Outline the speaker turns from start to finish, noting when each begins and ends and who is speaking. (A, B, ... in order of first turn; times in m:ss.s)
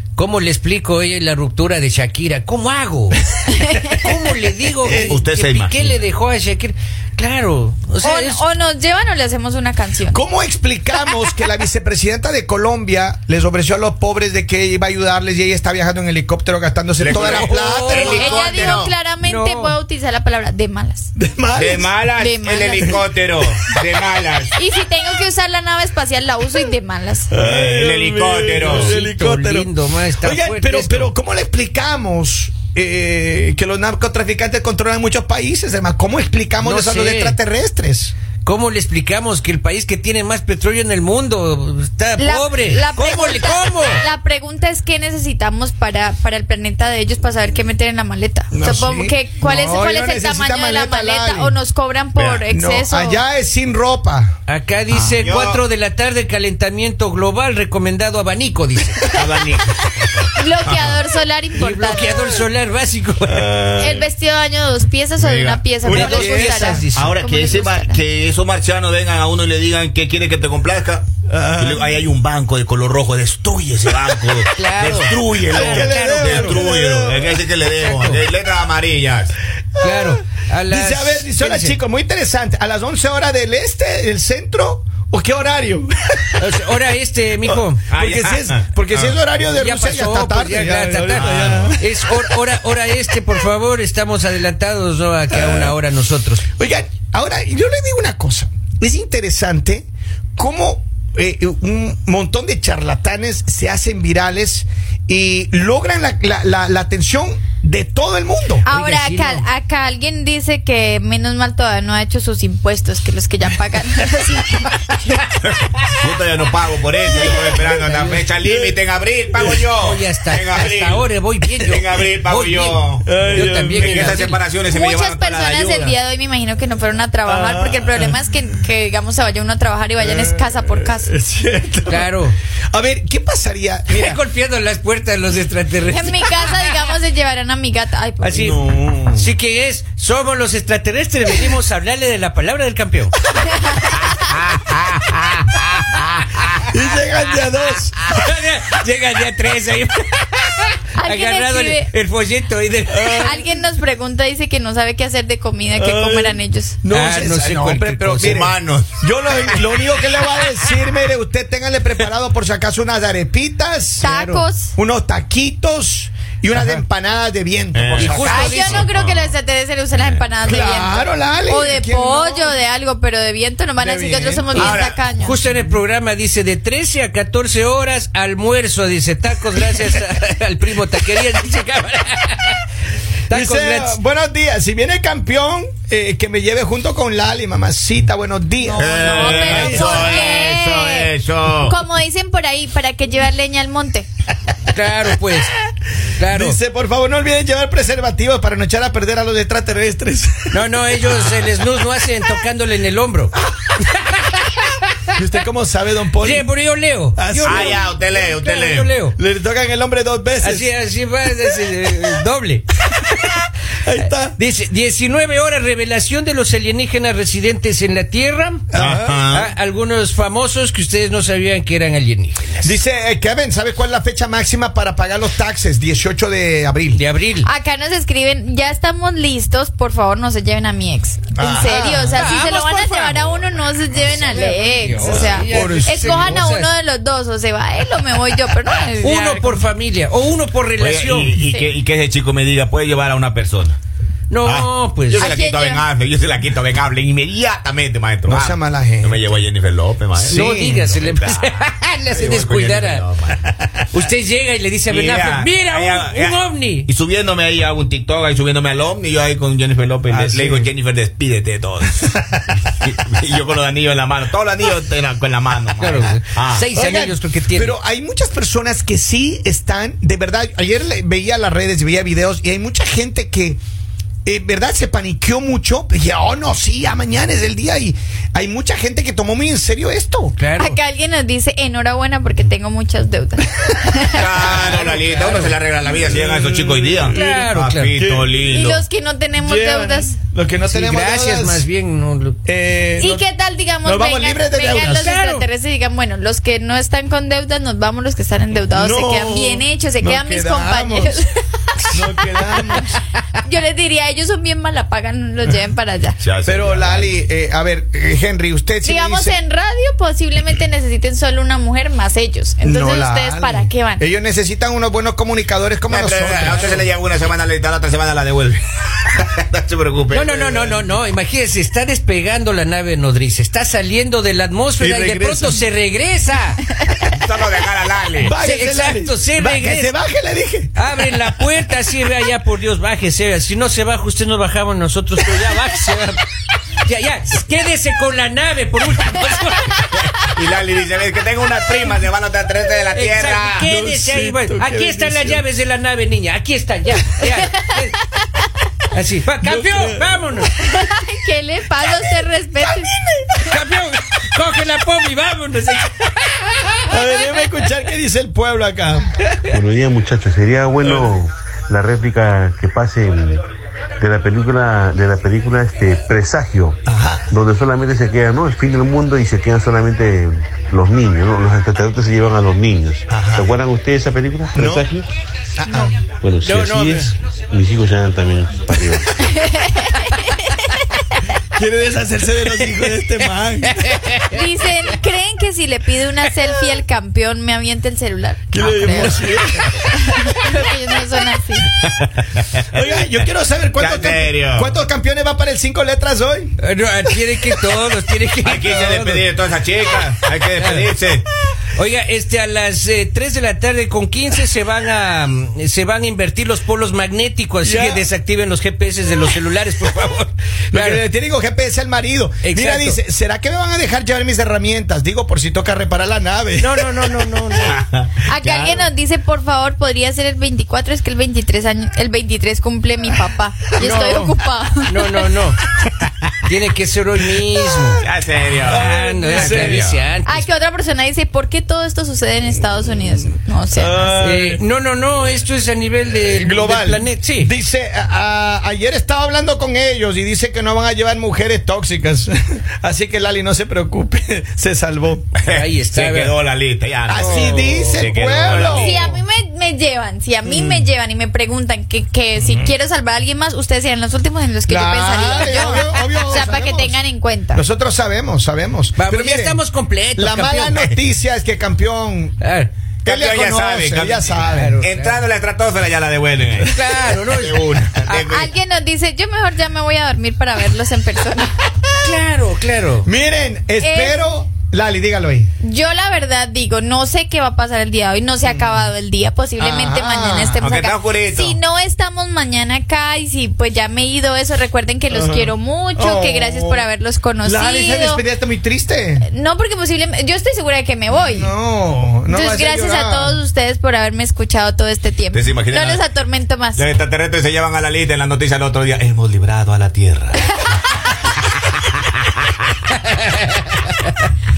0:00.2-0:03.3 A
0:03.5-0:04.0 B
0:04.0-0:08.4 A
0:04.8-0:05.2 C
0:04.9-0:05.9 D
0:08.0-0:10.2 B
0:10.1-0:18.8 C
0:17.0-0:19.0 D
0:17.1-0:18.6 A
0:18.1-0:21.1 B
0:19.2-0:19.8 A
0:21.2-0:21.9 C
0:21.5-0:24.5 D
0:22.2-0:23.1 B
0:22.8-0:23.0 C
0:24.6-0:27.4 B
0:27.3-0:38.1 C
0:27.4-0:28.9 D
0:28.6-0:31.1 A
0:36.6-0:37.4 A
0:38.4-0:44.0 A
0:42.2-0:53.2 B
0:48.5-0:51.6 C
0:52.2-0:52.4 D
0:52.5-0:54.4 C
0:54.5-0:59.0 A
0:55.2-0:55.6 D
0:59.2-1:01.0 D
1:00.4-1:02.2 B
1:01.6-1:03.6 A
1:03.3-1:04.1 C
1:03.8-1:08.0 B
1:05.2-1:05.7 D
1:05.8-1:06.8 C
1:05.9-1:07.1 A
1:06.9-1:11.0 D
1:11.3-1:11.9 C
1:11.6-1:19.4 D
1:14.6-1:16.7 A
1:15.4-1:17.4 C
1:17.8-1:18.2 A
1:19.8-1:21.8 A
1:20.7-1:26.5 C
1:26.4-1:27.8 A
1:27.4-1:32.2 C
1:27.9-1:29.2 D
1:29.4-1:36.4 A
1:31.1-1:31.8 D
1:35.3-1:35.8 C
1:36.6-1:48.6 C
1:48.6-1:55.2 B
1:48.7-1:49.5 A
1:55.4-2:01.0 D
1:57.2-1:57.6 B
1:57.6-1:58.3 A
1:58.4-1:58.8 C
1:59.7-2:04.4 A
2:01.6-2:06.0 D
2:03.0-2:04.2 C
2:04.6-2:11.1 B
2:07.3-2:08.2 C
2:10.0-2:12.1 C
2:11.9-2:12.4 A
2:12.7-2:14.2 C
2:13.9-2:16.9 A
2:15.9-2:18.4 B
2:18.2-2:23.2 A
2:18.4-2:19.2 D
2:23.5-2:24.1 B
2:23.9-2:26.7 A
2:26.7-2:28.0 C
2:28.0-2:33.4 A
2:31.0-2:31.9 B
2:32.9-2:33.4 C
2:33.2-2:36.8 B
2:35.7-2:44.2 C
2:36.9-2:38.4 A
2:38.2-2:39.0 D
2:44.0-2:44.8 B
2:44.1-2:44.4 A
2:44.8-2:48.8 C
2:47.7-2:49.4 D
2:48.0-2:48.8 A
2:48.2-2:55.4 B
2:50.4-2:52.6 C
2:53.8-2:54.7 C
2:54.6-2:55.0 D
2:54.6-3:02.6 A
3:03.3-3:04.0 A
3:03.3-3:10.1 C
3:08.6-3:11.1 B
3:08.8-3:11.8 D
3:09.5-3:10.3 A
3:11.6-3:14.1 B
3:14.7-3:15.6 A
3:16.2-3:16.6 A
3:16.3-3:21.2 C
3:20.5-3:25.2 A
3:25.2-3:26.5 C
3:26.2-3:29.2 A
3:27.2-3:27.8 C
3:27.4-3:28.9 D
3:29.2-3:30.7 C
3:30.4-3:38.6 A
3:33.8-3:34.4 C
3:38.7-3:39.3 C
3:38.7-3:39.5 D
3:39.3-3:42.7 A
3:42.6-3:47.0 C
3:46.9-3:47.5 A
3:47.4-3:59.6 B
3:51.4-3:52.3 C
3:52.1-3:53.4 A
3:54.1-3:56.7 A
3:55.0-3:56.1 C
3:59.0-4:01.4 A
4:00.8-4:03.8 D
4:01.4-4:01.8 B
4:04.3-4:05.3 A
4:04.4-4:11.4 D
4:05.2-4:05.9 B
4:08.3-4:09.2 C
4:10.2-4:11.0 C
4:10.3-4:13.0 A
4:12.1-4:13.9 D
4:13.9-4:16.9 A
4:14.9-4:26.7 D
4:20.1-4:20.7 C
4:25.8-4:27.8 A
4:26.7-4:33.6 C
4:34.2-4:40.4 C
4:40.4-4:40.8 A
4:40.6-4:44.6 B
4:44.2-4:48.9 D
4:44.4-4:45.5 A
4:44.7-4:44.9 C
4:45.9-4:47.4 C
4:47.1-4:48.0 A
4:48.0-4:48.4 C
4:48.5-4:50.1 B
4:49.4-4:51.6 C
4:50.6-4:52.4 A
4:52.4-4:53.2 C
4:53.0-5:01.3 B
4:53.8-4:55.2 C
4:54.8-4:55.5 A
4:58.7-5:01.1 C
5:01.8-5:02.0 B
5:01.9-5:02.9 C
5:03.4-5:06.2 B
5:06.2-5:07.1 D
5:06.5-5:09.4 C
5:08.8-5:14.0 B
5:12.6-5:16.8 C
5:15.9-5:20.8 D
5:16.4-5:16.8 A
5:20.1-5:26.6 A
5:24.8-5:25.6 C
5:27.1-5:28.3 D
5:28.2-5:30.7 C
5:28.2-5:30.0 A
5:30.8-5:36.2 A
5:36.8-5:40.1 A
5:40.3-5:43.7 D
5:42.9-5:48.0 A
5:43.6-5:45.4 C
5:47.4-5:47.7 B
5:48.9-5:50.6 A
5:49.4-5:50.2 C
5:50.6-5:52.9 B
5:52.7-5:53.3 C
5:53.4-5:57.0 A
5:56.9-5:59.1 C
5:57.1-5:57.4 B
5:59.5-6:03.4 E
6:04.0-6:06.8 E
6:06.9-6:07.3 C
6:07.3-6:15.1 E
6:13.1-6:13.6 C
6:14.6-6:14.9 C
6:15.6-6:16.0 C
6:15.8-6:19.1 E
6:16.4-6:17.2 A
6:19.2-6:20.4 B
6:21.5-6:24.1 C
6:22.6-6:24.4 A
6:24.3-6:29.4 B
6:28.5-6:29.9 C
6:29.9-6:31.7 B
6:31.8-6:32.6 D
6:32.7-6:36.6 C
6:33.8-6:34.8 D
6:36.6-6:39.3 A
6:38.4-6:41.3 D
6:40.5-6:40.9 A
6:41.7-6:51.0 A
6:47.6-6:48.1 C
6:50.7-6:57.0 C
6:52.4-6:53.0 A
6:56.6-6:57.7 A
6:57.6-6:58.8 D
6:58.2-7:05.1 B
7:03.8-7:04.3 A
7:04.8-7:05.6 A
7:06.4-7:08.0 A
7:08.0-7:10.0 D
7:08.7-7:10.0 C
7:08.7-7:10.5 A
7:10.3-7:14.1 B
7:13.7-7:14.6 C
7:14.2-7:17.5 A
7:16.2-7:25.3 C
7:25.4-7:29.2 D
7:25.5-7:26.4 A
7:27.1-7:29.2 C
7:27.2-7:27.9 A
7:28.8-7:37.6 B
7:30.4-7:30.9 C
7:34.7-7:37.0 C
7:37.5-7:39.6 C
7:39.0-7:40.9 A
7:40.2-7:42.4 C
7:42.4-7:42.7 A
7:43.0-7:44.8 C
7:43.0-7:46.7 D
7:44.5-7:45.2 A
7:46.6-7:48.1 A
7:47.2-7:48.5 D
7:48.1-7:51.8 B
7:52.0-7:53.1 A
7:53.0-7:55.5 C
7:53.8-7:54.3 B
7:55.6-8:08.2 B
7:59.6-8:00.6 C
8:00.6-8:01.6 D
8:05.1-8:06.9 C
8:07.4-8:09.3 C
8:09.2-8:11.5 B
8:11.1-8:13.4 C
8:12.3-8:16.8 B
8:15.3-8:16.1 D
8:16.8-8:20.8 D
8:20.4-8:20.7 B
8:22.9-8:24.3 A